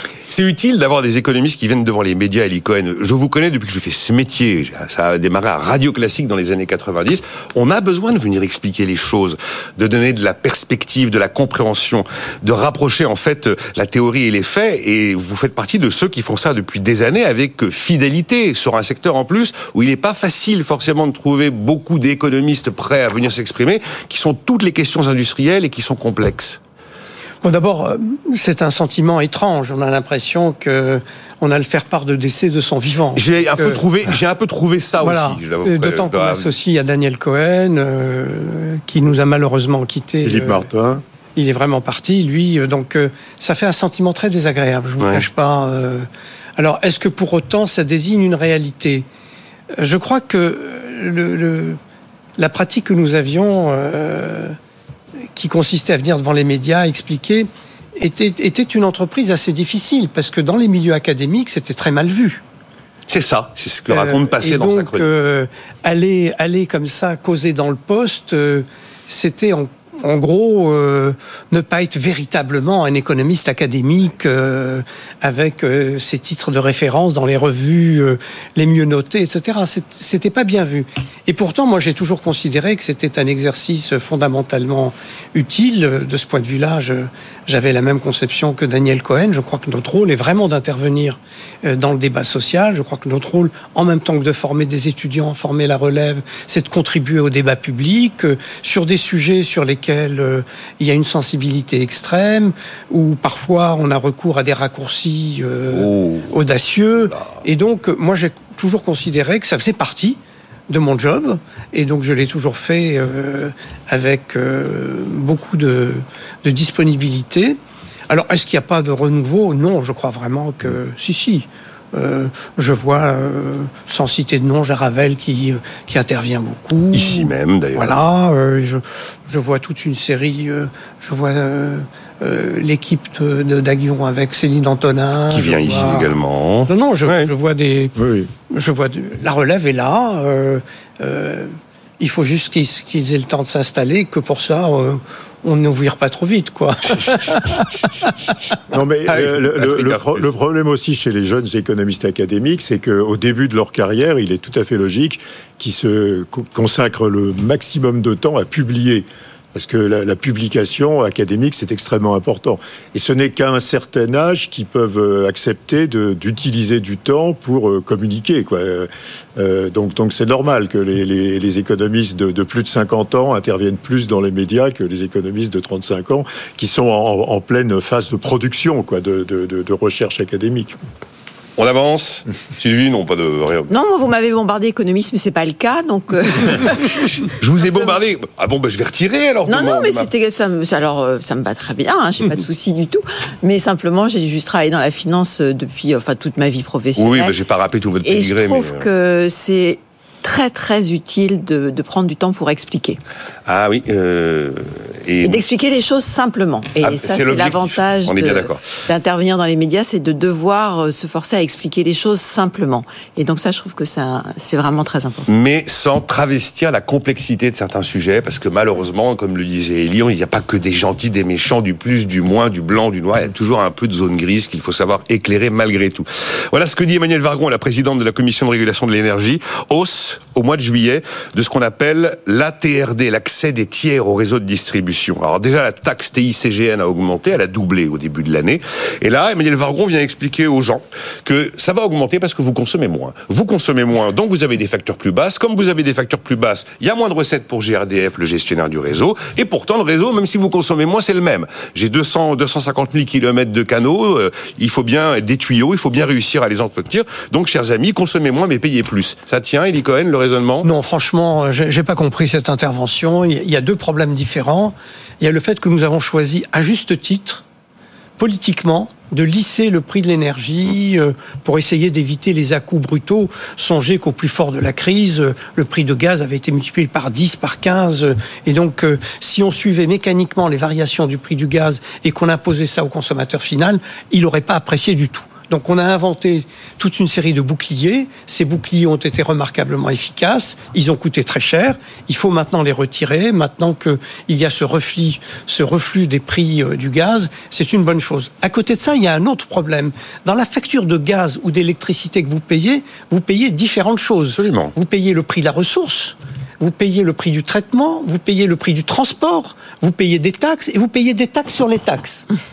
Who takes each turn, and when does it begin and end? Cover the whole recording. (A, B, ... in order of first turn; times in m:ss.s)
0:00.3-0:26.6 A
0:27.4-0:33.8 B
0:33.1-0:36.5 A
0:35.0-0:40.7 B
0:40.2-0:41.0 C
0:41.3-0:49.0 B
0:49.8-0:51.8 B
0:52.4-0:54.5 B
0:55.3-1:02.4 B
1:03.1-1:05.1 A
1:03.9-1:57.6 B
1:45.7-1:46.3 A
1:46.9-1:47.3 A
1:58.1-2:16.1 B
2:06.9-2:08.0 A
2:15.3-2:17.3 A
2:16.7-2:18.0 B
2:18.0-2:18.3 C
2:18.5-2:28.1 B
2:28.7-3:00.8 C
2:28.7-2:30.3 A
3:01.6-3:03.7 A
3:03.7-3:07.2 D
3:07.3-3:10.1 A
3:09.4-3:17.3 D
3:16.9-3:18.9 A
3:18.0-3:23.0 D
3:23.4-3:25.4 A
3:25.2-3:35.3 D
3:26.8-3:28.8 A
3:35.3-4:20.7 A
4:20.6-4:27.4 B
4:28.2-5:12.3 B
5:04.3-5:04.7 A